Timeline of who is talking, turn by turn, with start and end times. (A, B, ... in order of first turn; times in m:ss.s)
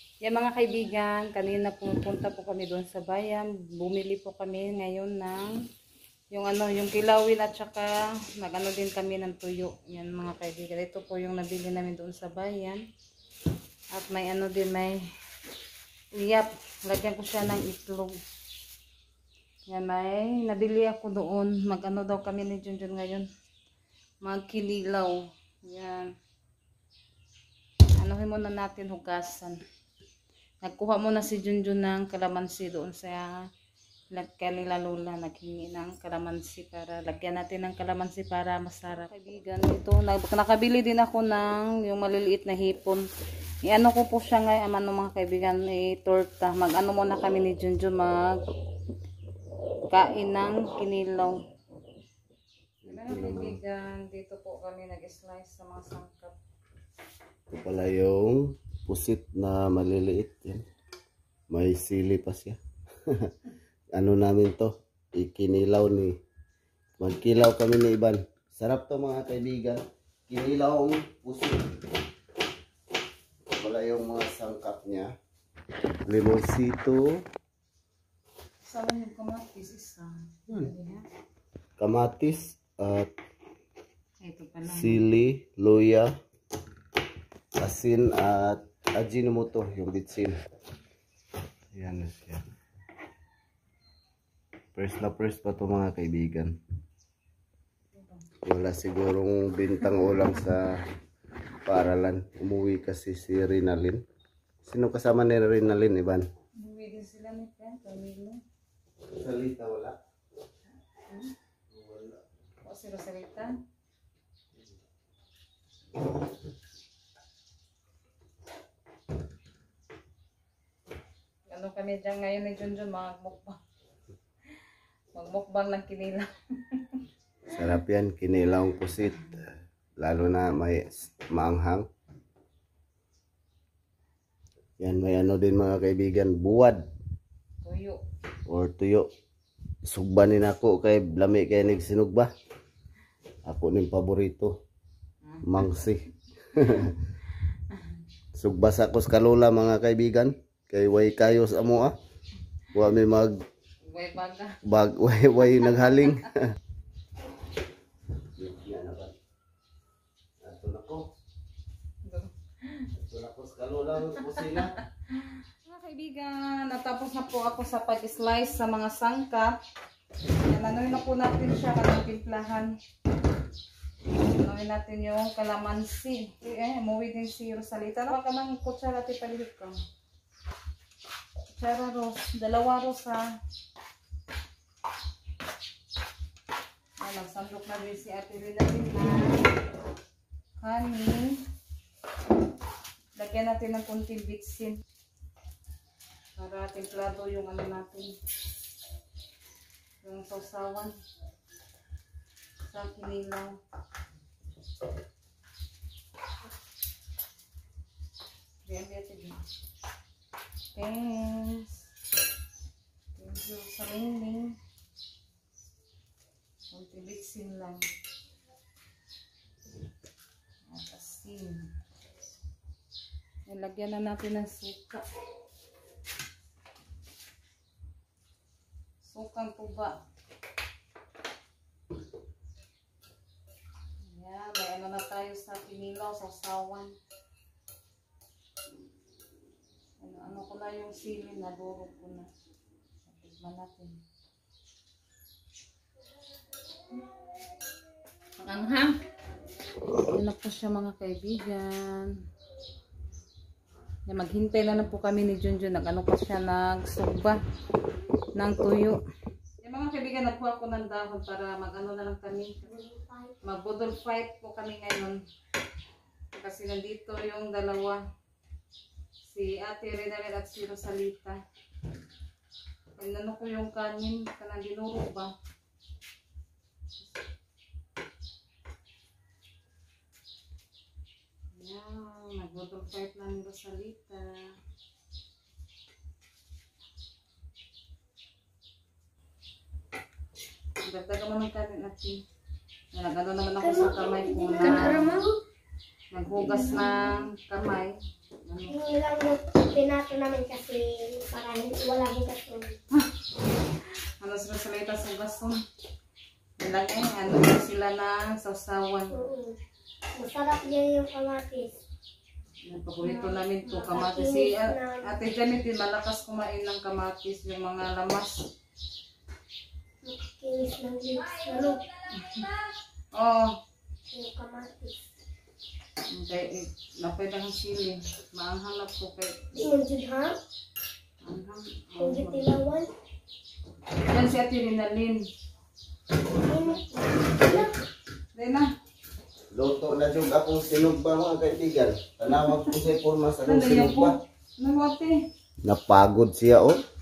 0:00.2-0:05.5 A
0:06.3-0:12.8 A
0:13.9-0:15.0 A
0:16.1-0:18.2 A
0:19.7-0:23.3 A
0:24.2-0:26.1 A
0:28.0-0:29.6 A
0:30.6-0:33.4 A
0:34.1-0:43.0 A
0:43.6-0:48.4 A
0:49.9-0:51.4 A
0:52.8-0:53.6 B
0:52.8-0:56.4 A
0:57.5-1:00.6 B
1:01.5-1:03.3 B
1:03.9-1:06.2 B
1:07.0-1:11.8 B
1:13.5-1:15.1 B
1:16.1-1:17.2 B
1:18.6-1:21.0 A
1:21.8-1:23.1 B
1:24.2-1:25.0 A
1:24.7-1:26.1 B
1:27.6-1:30.4 B
1:31.8-1:32.4 B
1:34.8-1:36.6 B
1:37.9-1:38.2 A
1:38.4-1:40.9 B
1:41.6-1:44.0 B
1:44.6-1:46.3 B
1:46.6-1:48.4 A
1:49.1-1:50.0 B
1:51.1-1:51.3 A
1:51.7-1:52.2 B
1:52.6-1:53.6 A
2:01.5-2:03.6 A
2:05.1-2:07.0 A
2:07.5-2:11.9 B
2:14.8-2:16.9 B
2:17.6-2:18.0 A
2:18.5-2:19.1 B
2:19.9-2:22.3 B
2:23.5-2:24.6 B
2:25.4-2:27.0 B
2:28.3-2:31.9 B
2:32.7-2:33.3 B
2:33.8-2:34.6 A
2:34.6-2:36.6 B
2:35.6-2:36.2 A
2:38.4-2:39.1 B
2:40.4-2:41.0 B
2:42.0-2:42.9 A
2:43.0-2:44.7 B
2:44.2-2:49.6 A
2:50.4-2:52.7 A
2:54.2-2:59.8 A
3:01.5-3:03.3 A
3:07.0-3:09.6 A
3:10.6-3:11.4 A
3:13.2-3:14.8 A
3:16.4-3:18.2 A
3:20.0-3:20.9 A
3:22.7-3:23.6 A
3:28.6-3:29.4 A
3:30.8-3:31.8 A
3:33.2-3:34.6 A
3:36.7-3:37.8 A
3:40.7-3:41.6 A
3:43.5-3:45.0 A
3:49.0-3:50.0 A
3:54.1-3:56.9 A
4:00.0-4:02.3 A
4:03.1-4:04.0 A
4:08.4-4:08.9 A
4:10.0-4:12.1 A
4:14.1-4:17.4 A
4:18.3-4:19.0 A
4:19.6-4:22.7 A
4:22.6-4:23.4 C
4:23.4-4:25.2 A
4:26.3-4:28.0 A
4:29.2-4:31.4 A
4:33.0-4:35.3 A
4:41.5-4:44.5 A
4:50.8-4:52.2 A
4:52.9-4:55.2 A
4:53.6-4:55.4 C
4:56.1-4:57.9 A
4:56.4-4:57.0 C
4:58.4-4:58.8 A
4:58.7-5:02.8 C
5:03.8-5:05.6 A
5:06.6-5:09.2 A
5:09.1-5:09.6 C
5:10.2-5:11.8 C
5:12.6-5:18.4 A
5:13.0-5:15.2 C
5:20.0-5:21.9 C
5:22.1-5:22.5 A
5:23.1-5:23.5 A
5:24.1-5:25.0 C
5:26.1-5:29.5 A
5:29.5-5:30.4 C
5:31.2-5:32.5 A
5:32.0-5:32.9 C
5:34.1-5:35.2 A
5:36.4-5:37.7 C
5:36.5-5:36.8 A
5:38.3-5:38.7 A
5:39.5-5:44.1 B
5:42.4-5:42.7 A
5:43.4-5:45.1 A
5:45.6-5:46.8 B